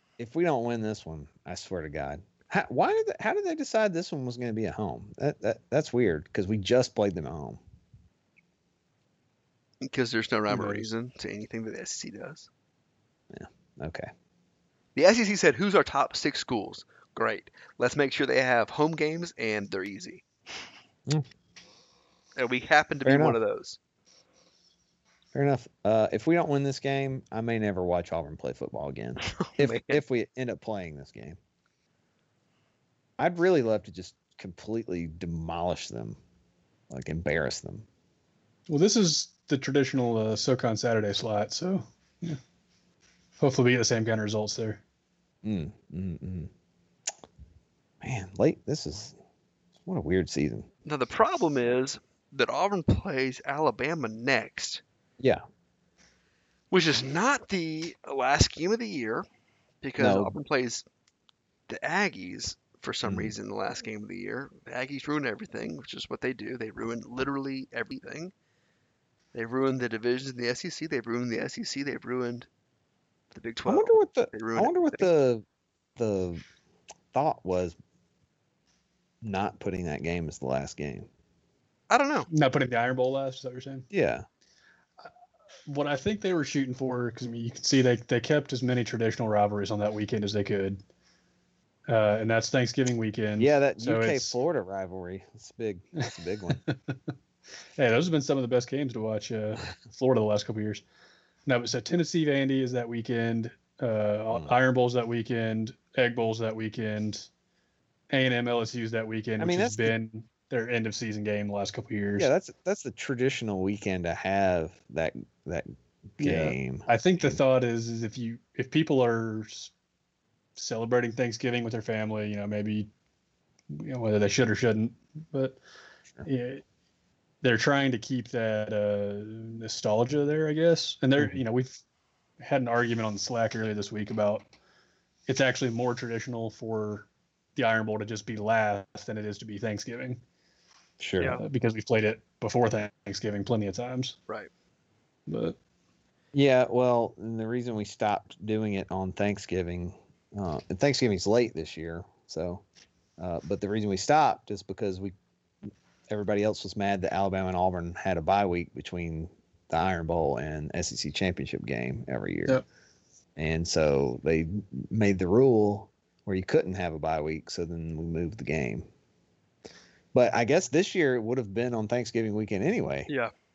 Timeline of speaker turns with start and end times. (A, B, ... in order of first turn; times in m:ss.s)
0:00.2-0:07.6 A
0:09.8-0:12.5 B
0:10.5-0:10.9 C
0:13.3-0:14.1 A
0:15.0-0:20.2 B
0:22.4-0:23.8 B
0:23.0-0:23.4 A
0:25.3-0:31.4 A
0:29.2-0:30.0 B
0:33.2-0:36.2 A
0:36.9-0:37.8 A
0:38.7-0:42.4 C
0:43.4-0:44.8 C
0:45.4-0:46.5 A
0:48.0-0:49.2 A
0:49.8-0:50.7 A
0:50.8-0:54.8 B
0:56.7-0:59.2 B
0:59.8-1:00.8 B
1:00.0-1:00.3 A
1:01.7-1:08.3 B
1:03.0-1:03.3 A
1:09.3-1:12.5 B
1:13.3-1:15.1 B
1:13.7-1:15.4 A
1:16.0-1:16.4 A
1:17.1-1:17.8 A
1:19.2-1:21.1 A
1:21.9-1:22.3 B
1:22.3-1:23.9 C
1:23.9-1:24.2 A
1:25.7-1:30.8 C
1:31.9-1:34.4 C
1:33.4-1:36.6 A
1:36.7-1:36.9 C
1:37.8-1:40.8 C
1:41.4-1:47.3 C
1:48.1-1:52.3 C
1:49.4-1:49.9 A
1:52.2-1:57.4 A
1:56.2-1:59.7 C
2:00.6-2:02.9 C
2:03.7-2:05.6 C
2:06.2-2:06.6 C
2:07.4-2:11.8 C
2:12.4-2:14.5 C
2:15.3-2:20.2 C
2:21.0-2:21.4 A
2:21.2-2:21.4 B
2:21.4-2:24.2 C
2:25.3-2:25.6 C
2:26.3-2:32.6 A
2:33.2-2:35.1 A
2:36.1-2:42.6 A
2:43.4-2:48.9 A
2:50.1-2:53.1 A